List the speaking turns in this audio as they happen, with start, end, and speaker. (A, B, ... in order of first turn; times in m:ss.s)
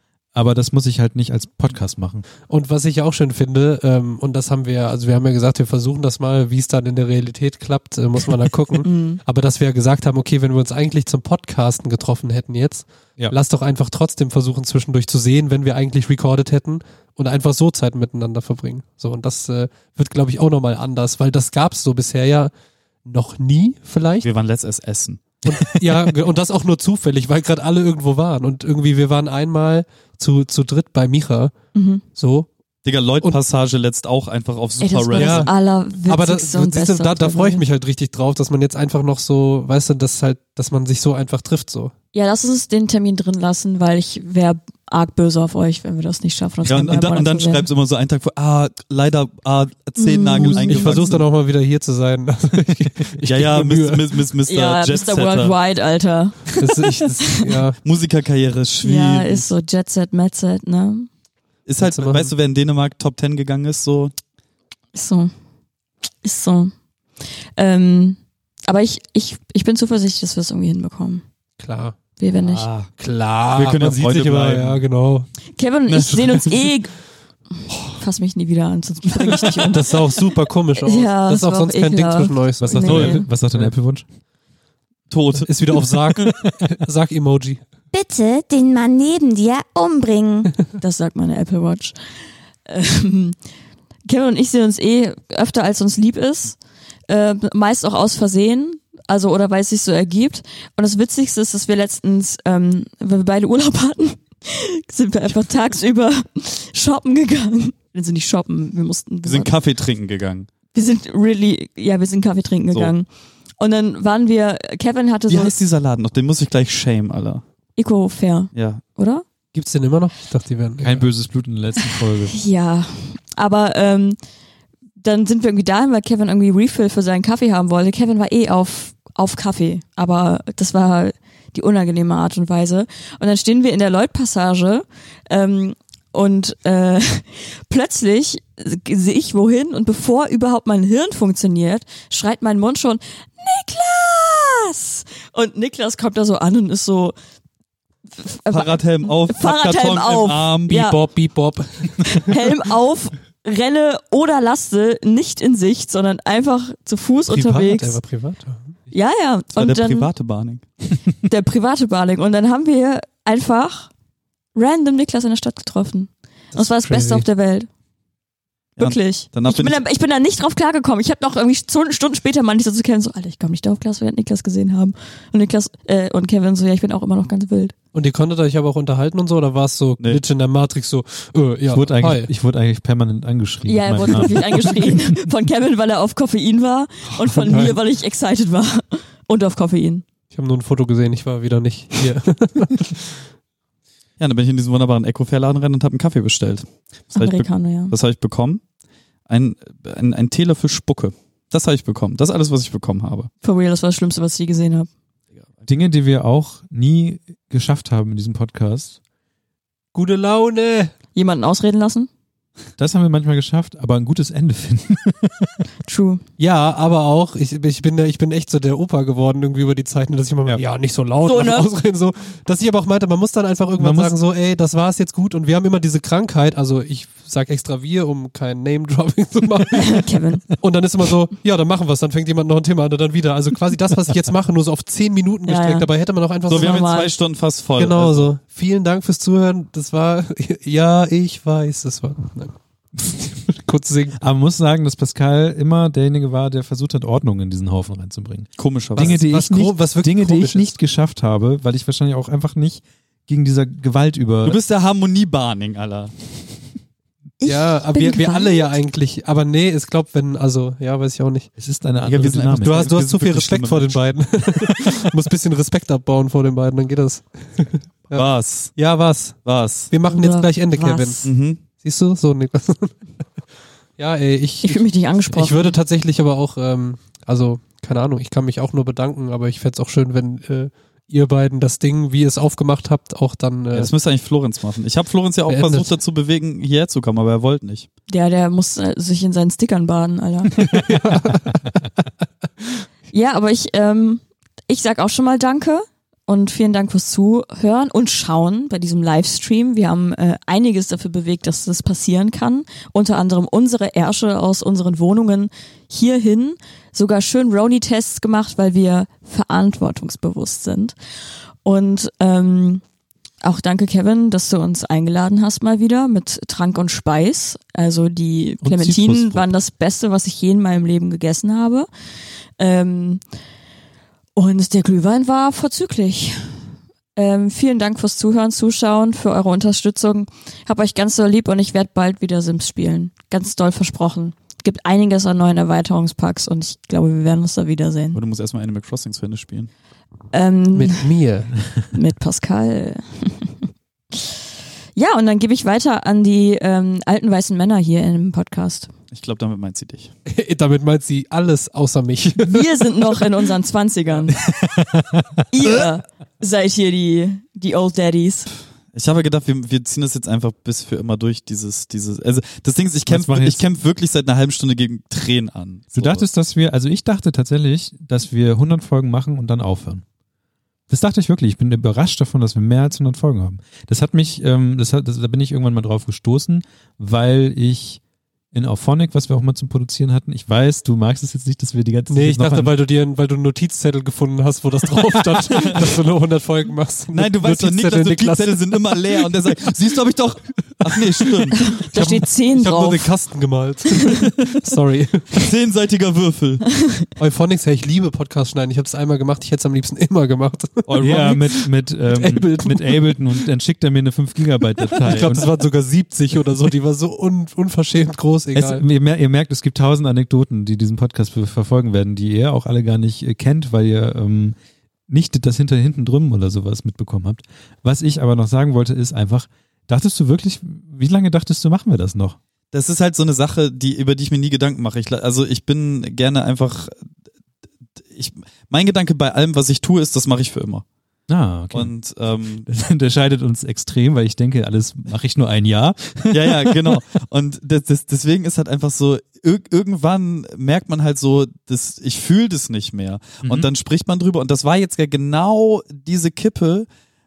0:00.3-0:02.2 A
0:02.5-0:22.5 B
0:08.8-0:09.2 C
0:23.0-0:24.3 B
0:24.2-0:25.2 D
0:25.4-0:31.5 B
0:31.8-0:32.0 C
0:32.2-0:32.5 B
0:32.8-0:35.5 D
0:34.8-0:37.6 C
0:35.2-0:35.5 B
0:36.1-0:41.9 B
0:42.1-0:47.6 C
0:46.6-0:51.2 D
0:50.0-0:51.0 C
0:50.4-0:54.1 B
0:53.2-0:55.6 D
0:54.5-0:56.6 C
0:56.6-0:57.8 B
0:57.8-0:59.5 D
0:58.8-1:01.1 C
1:01.7-1:04.1 D
1:01.8-1:02.3 B
1:04.9-1:05.3 C
1:06.2-1:06.7 C
1:07.6-1:11.2 C
1:11.6-1:12.0 B
1:12.2-1:12.7 C
1:12.4-1:12.9 D
1:13.0-1:15.3 B
1:13.5-1:14.8 D
1:13.9-1:14.4 A
1:15.6-1:17.0 C
1:15.9-1:16.6 D
1:17.7-1:18.0 D
1:18.0-1:19.9 C
1:19.6-1:23.7 B
1:20.8-1:23.3 C
1:22.6-1:24.0 A
1:22.8-1:23.2 D
1:25.1-1:26.3 D
1:25.4-1:27.6 B
1:27.9-1:30.6 E
1:30.7-1:32.0 C
1:32.7-1:33.4 C
1:34.1-1:36.6 C
1:37.1-1:49.5 C
1:49.2-1:50.5 D
1:50.7-1:53.1 C
1:53.6-1:55.5 C
1:55.3-1:57.4 D
1:57.8-1:59.2 C
1:58.5-1:58.8 D
1:59.5-2:01.1 B
2:00.8-2:02.4 A
2:02.2-2:04.2 C
2:05.0-2:27.2 C
2:28.2-2:31.0 C
2:28.5-2:30.8 D
2:30.7-2:32.3 B
2:32.0-2:38.0 C
2:37.3-2:38.8 B
2:38.9-2:40.1 C
2:39.5-2:40.6 D
2:41.2-2:43.9 C
2:44.6-2:47.7 C
2:46.5-2:47.3 B
2:48.8-2:49.8 D
2:48.8-2:57.8 C
2:57.9-3:02.3 B
3:01.7-3:05.1 A
3:03.7-3:10.0 C
3:07.3-3:07.8 B
3:10.3-3:13.2 B
3:14.2-3:18.6 D
3:17.2-3:17.9 C
3:19.3-3:23.3 D
3:23.4-3:24.9 C
3:25.7-3:29.0 A
3:29.9-3:30.9 B
3:31.2-3:32.1 C
3:32.8-3:35.6 A
3:35.9-3:36.2 C
3:36.4-3:50.0 B
3:41.2-3:41.7 C
3:43.8-3:44.2 A
3:49.7-3:50.5 C
3:50.6-3:56.9 B
3:55.5-3:55.9 C
3:56.5-3:58.3 D
3:56.5-3:57.1 C
3:57.8-4:02.6 B
4:03.1-4:04.2 B
4:04.2-4:14.6 A
4:08.6-4:09.2 D
4:09.0-4:10.7 B
4:14.4-4:16.1 D
4:17.4-4:18.6 C
4:17.4-4:21.5 B
4:21.6-4:22.8 A
4:22.0-4:24.0 D
4:22.6-4:29.4 B
4:28.1-4:28.7 D
4:29.4-4:29.9 D
4:29.9-4:33.0 B
4:30.1-4:31.3 C
4:31.2-4:31.6 D
4:34.0-4:43.9 B
4:34.6-4:35.8 C
4:43.7-4:47.9 D
4:45.5-4:45.9 B
4:48.1-4:50.7 C
4:50.6-4:51.9 B
4:53.1-5:11.0 C
5:11.6-5:12.8 C
5:13.4-5:21.9 C
5:18.6-5:19.5 A
5:22.6-5:23.2 C
5:24.4-5:26.5 C
5:27.2-5:38.2 C
5:38.2-5:39.7 D
5:40.3-5:41.1 C
5:40.7-5:41.5 B
5:41.9-5:44.3 C
5:45.0-5:48.9 C
5:49.1-5:50.1 D
5:50.3-5:53.1 B
5:52.4-5:54.5 C
5:54.4-5:55.4 A
5:55.5-5:58.5 C
5:58.9-6:06.2 D
6:03.1-6:03.6 A
6:06.0-6:10.0 A
6:10.9-6:18.0 A
6:18.5-6:22.7 A
6:22.1-6:29.0 B
6:25.6-6:25.9 D
6:27.1-6:31.8 D
6:31.0-6:35.5 B
6:31.7-6:33.1 C
6:35.3-6:36.6 D
6:37.2-6:43.2 B
6:40.9-6:41.4 D
6:41.0-6:45.5 A
6:44.9-6:45.4 D
6:45.0-6:48.8 B
6:48.6-6:54.6 A
6:55.1-7:02.4 A
7:02.7-7:07.0 D
7:08.1-7:10.8 D
7:11.3-7:11.9 A
7:11.7-7:12.7 D
7:12.6-7:17.0 A
7:16.3-7:26.9 D
7:23.4-7:23.7 A